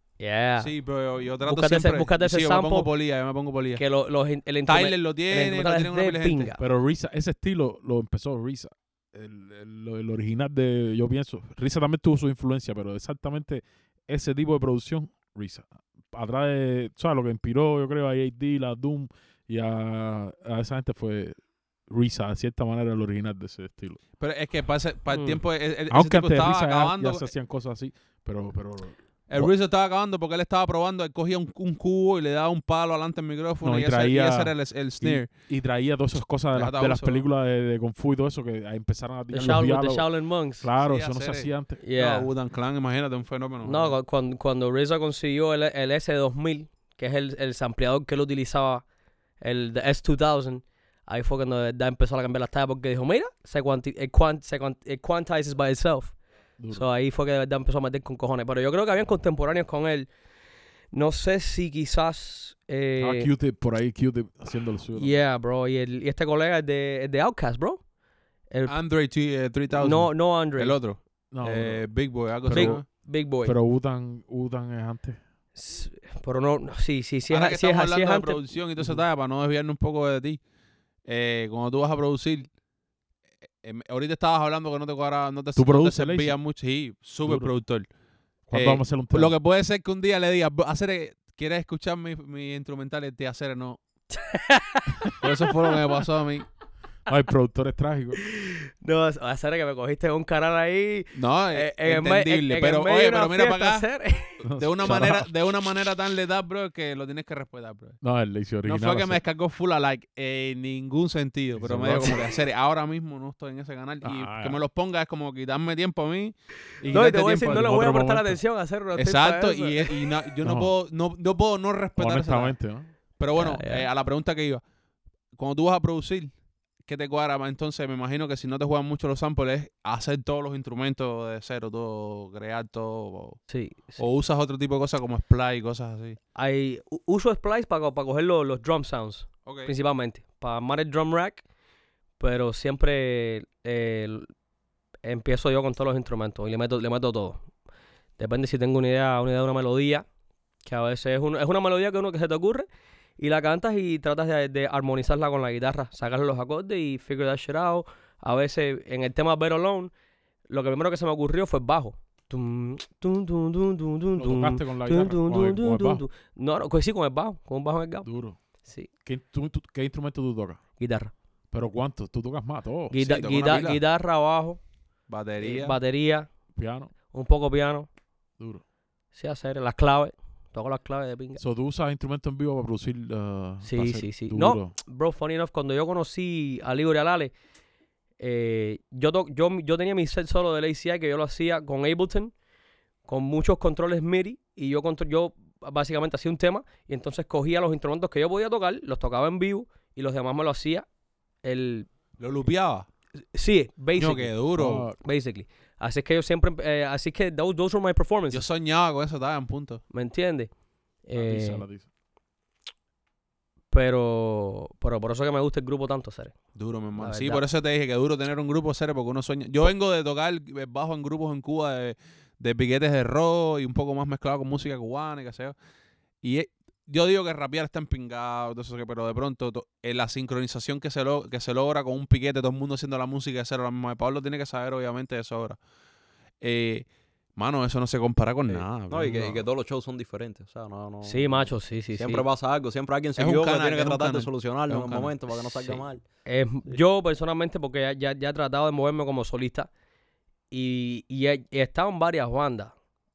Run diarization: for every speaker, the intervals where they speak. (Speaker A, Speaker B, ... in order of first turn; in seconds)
Speaker A: 0.2-0.7, 1.4-2.9, 3.8-6.6, 25.1-25.4, 39.3-40.7, 41.8-42.3, 43.6-48.8, 49.4-56.1, 56.7-60.1, 60.9-63.3, 65.0-67.8, 68.5-68.8, 69.7-70.8, 72.5-73.5, 75.5-78.4, 94.1-95.1, 98.2-104.4, 116.9-120.0, 123.3-123.9, 133.5-134.0, 136.3-141.4, 142.2-144.3, 145.0-147.4, 148.2-150.0, 150.6-152.7, 153.2-159.9, 160.5-168.1, 168.6-168.9, 170.8-171.1, 172.9-174.6, 175.4-176.3, 177.1-177.9, 179.1-181.4, 183.6-187.3, 188.2-192.3, 193.1-200.8, 201.4-201.9, 203.3-204.4, 205.0-208.4, 209.9-210.5, 211.1-211.6, 213.7-216.3, 217.0-217.4, 241.0-242.2, 245.6-249.7, 250.5-252.7
Speaker B: 0.6-3.8, 4.7-6.5, 24.2-27.3, 29.3-35.3, 36.5-37.2, 40.8-44.0, 68.7-72.8, 77.3-80.4, 81.0-82.5, 83.6-87.9, 88.5-93.8, 95.2-96.5, 101.1-103.8, 104.5-108.0, 108.6-117.7, 119.0-122.5, 123.2-124.6, 125.3-126.3, 126.8-133.4, 134.0-136.2, 139.4-139.7, 173.0-173.8, 175.1-175.8, 202.2-202.9, 203.9-204.9, 208.3-209.8, 216.6-225.6, 226.2-235.6, 236.4-239.4, 243.2-245.1
Speaker C: 6.6-24.0, 25.9-29.5, 33.6-41.8, 56.6-56.8, 63.0-65.1, 71.3-71.9, 72.4-72.8, 73.4-75.2, 85.5-86.3, 87.2-87.5, 88.5-89.3, 97.1-98.2, 104.4-105.3, 108.0-109.2, 111.6-112.2, 114.0-114.6, 116.8-118.4, 120.4-120.7, 122.0-122.9, 164.2-166.0, 168.0-168.4, 169.0-170.6, 171.5-173.0, 176.6-176.9, 181.4-184.7, 204.5-204.9, 211.1-211.9
Speaker D: 238.5-246.0